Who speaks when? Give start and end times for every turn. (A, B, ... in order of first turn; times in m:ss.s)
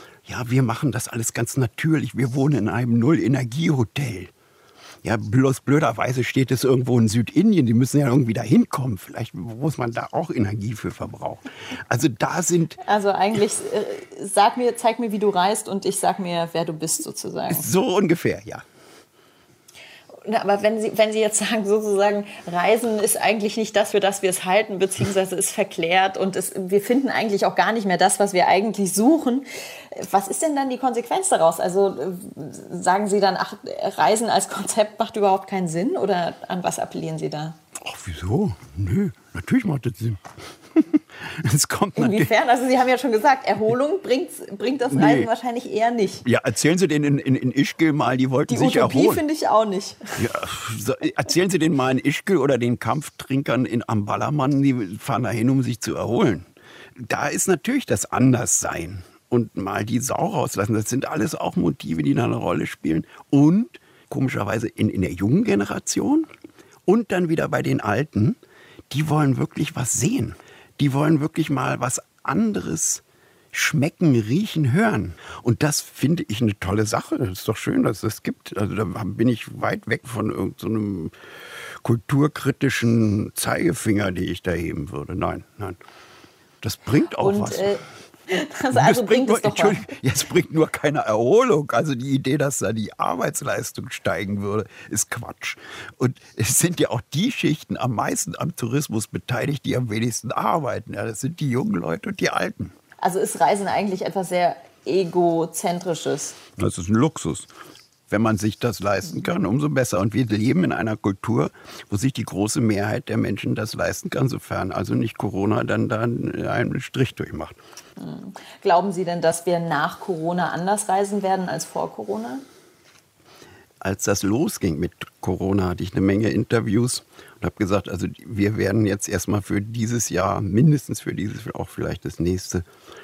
0:00.3-0:04.3 A
0:05.0-0:12.8 A
0:12.8-0:17.7 B
0:17.5-0:18.6 A
0:20.2-0:37.6 B
0:37.8-0:40.2 A
0:40.7-0:42.3 A
0:42.0-0:46.2 B
0:44.9-0:45.3 A
0:46.2-0:49.2 A
0:48.5-0:50.3 B
0:50.2-0:56.5 A
0:57.0-1:06.3 A
1:06.9-1:08.4 A
1:08.9-1:21.1 A
1:21.8-1:25.8 A
1:26.6-1:27.7 A
1:27.1-1:29.9 B
1:28.7-1:42.7 A
1:43.0-1:46.4 B
1:46.6-1:47.5 A
1:48.1-1:57.6 A
1:58.0-2:02.4 B
2:03.8-2:12.6 A